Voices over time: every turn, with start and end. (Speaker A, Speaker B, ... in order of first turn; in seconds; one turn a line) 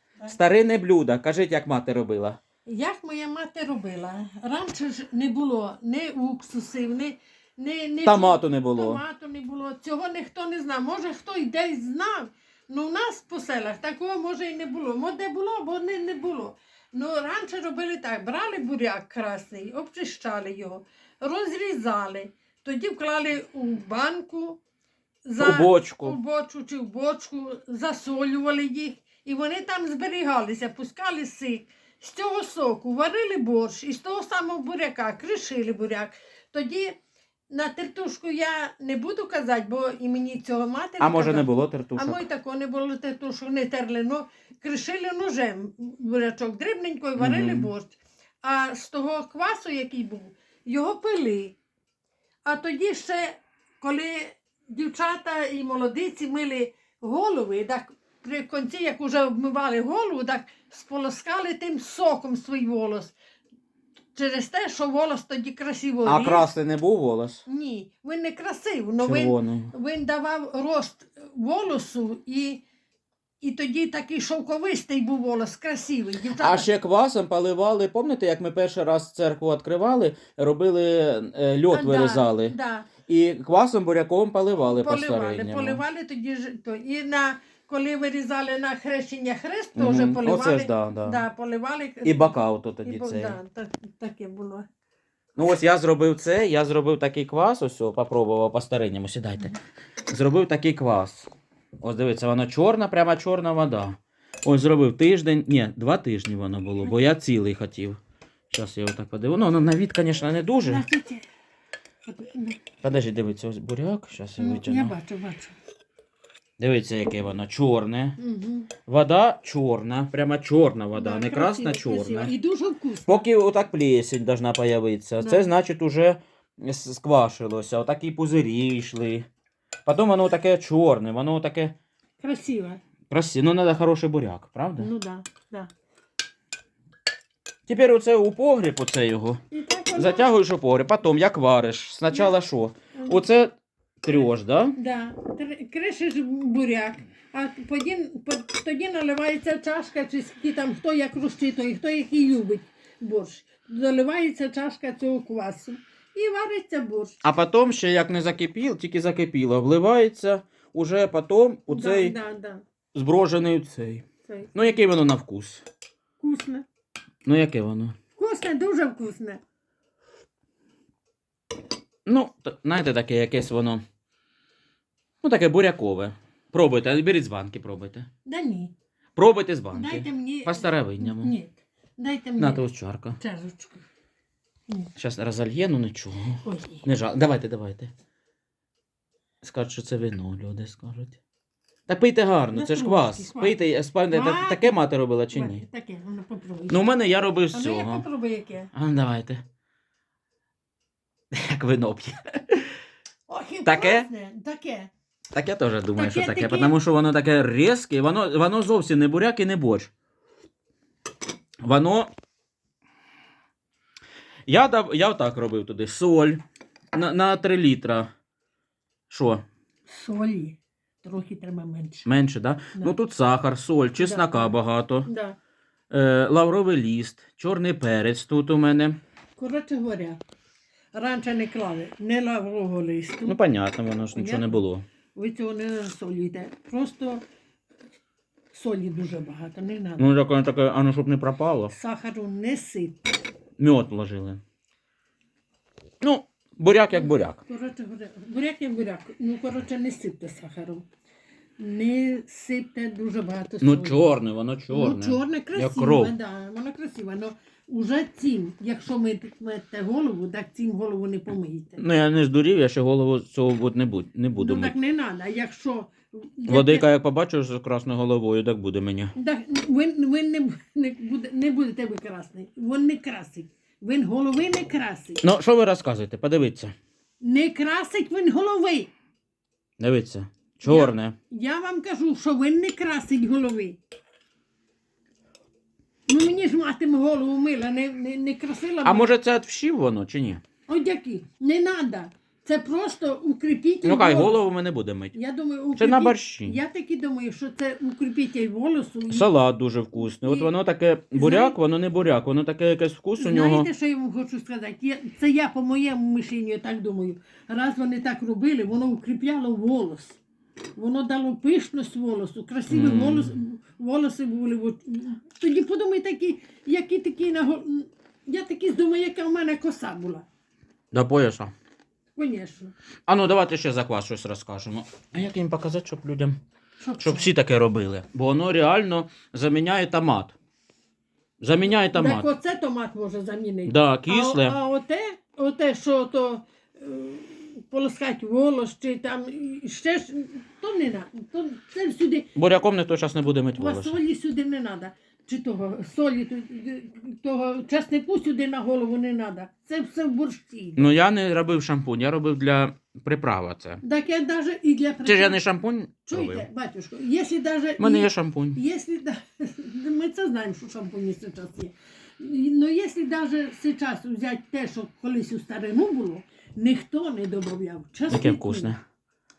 Speaker A: 0.3-2.4
Speaker B: 2.7-24.6
Speaker A: 8.0-9.0
Speaker B: 25.3-37.0
Speaker A: 25.4-26.2
Speaker B: 37.5-51.6
Speaker A: 41.0-42.2
Speaker A: 47.2-47.7
Speaker B: 52.5-63.1
Speaker B: 64.2-66.5
Speaker A: 66.0-67.4
Speaker B: 67.5-72.6
Speaker A: 69.0-69.7
Speaker B: 73.4-76.7
Speaker A: 76.4-82.5
Speaker B: 81.7-82.9
Speaker A: 83.1-85.8
Speaker B: 84.6-94.7
Speaker A: 89.8-91.2
Speaker A: 92.0-93.4
Speaker A: 95.4-99.5
Speaker A: 100.1-101.3
Speaker A: 101.8-108.0
Speaker A: 108.5-110.8
Speaker B: 110.6-111.3
Speaker B: 112.0-112.6
Speaker A: 112.8-115.0
Speaker B: 114.4-115.6
Speaker A: 116.6-118.2
Speaker B: 118.2-118.7
Speaker A: 118.9-122.3
Speaker B: 120.9-123.3
Speaker A: 123.0-129.3
Speaker B: 125.2-125.5
Speaker A: 129.9-131.7
Speaker B: 132.2-132.8
Speaker A: 133.1-134.9
Speaker B: 134.8-135.7
Speaker A: 137.7-139.4
Speaker B: 139.5-140.3
Speaker A: 139.9-144.8
Speaker B: 142.1-142.3
Speaker B: 143.0-143.3
Speaker B: 144.1-157.2
Speaker A: 157.2-162.2
Speaker B: 161.7-162.6
Speaker A: 162.9-165.6
Speaker B: 164.2-164.8
Speaker B: 166.2-166.7
Speaker A: 167.2-167.9
Speaker B: 168.2-169.4
Speaker A: 172.1-173.8
Speaker A: 175.2-178.1
Speaker B: 178.3-178.7
Speaker A: 179.2-181.3
Speaker B: 179.7-182.6
Speaker A: 182.4-183.2
Speaker B: 183.2-183.8
Speaker A: 185.0-187.9
Speaker B: 186.4-186.9
Speaker A: 189.4-191.2
Speaker A: 191.9-195.6
Speaker B: 192.5-193.6
Speaker B: 194.1-194.8
Speaker B: 195.3-196.9
Speaker A: 196.7-198.1
Speaker B: 197.5-198.7
Speaker A: 198.7-199.4
Speaker A: 201.3-202.7
Speaker B: 203.3-204.9
Speaker A: 203.7-204.1
Speaker A: 205.3-209.9
Speaker B: 205.9-206.8
Speaker A: 211.6-212.1
Speaker A: 214.5-216.4
Speaker A: 216.9-218.1
Speaker A: 219.1-219.4
Speaker B: 219.9-222.1
Speaker A: 222.1-225.1
Speaker B: 224.0-225.4
Speaker A: 225.9-229.0
Speaker B: 229.4-230.2
Speaker B: 230.9-233.4
Speaker A: 233.3-234.8
Speaker B: 234.1-237.2
Speaker B: 238.5-240.1
Speaker A: 240.0-241.7
Speaker B: 241.7-243.2
Speaker A: 243.6-244.4
Speaker A: 246.0-247.4
Speaker B: 246.9-250.8
Speaker B: 251.6-254.0
Speaker A: 253.6-256.1
Speaker B: 254.7-261.8
Speaker A: 261.8-264.7
Speaker B: 264.4-266.9
Speaker A: 266.5-269.1
Speaker B: 269.1-275.2
Speaker A: 275.2-276.7
Speaker B: 277.2-278.9
Speaker A: 279.8-281.1
Speaker B: 280.6-283.8
Speaker B: 286.1-289.1
Speaker A: 288.8-290.4
Speaker B: 290.7-294.4
Speaker A: 293.8-295.1
Speaker B: 295.1-299.3
Speaker A: 295.8-296.6
Speaker A: 299.1-303.7
Speaker B: 299.9-300.5
Speaker B: 301.1-301.6
Speaker B: 303.2-310.2
Speaker B: 310.8-320.2
Speaker A: 312.7-313.4
Speaker A: 320.9-321.5
Speaker B: 322.2-322.7
Speaker A: 323.1-326.4
Speaker B: 326.8-327.3
Speaker A: 327.0-330.4
Speaker A: 331.4-332.3
Speaker B: 331.7-342.3
Speaker A: 333.7-334.6
Speaker A: 342.4-344.0
Speaker B: 343.6-350.9
Speaker A: 350.8-353.8
Speaker B: 353.8-355.4
Speaker A: 355.1-356.4
Speaker B: 356.1-368.8
Speaker A: 357.8-358.6
Speaker A: 368.1-368.8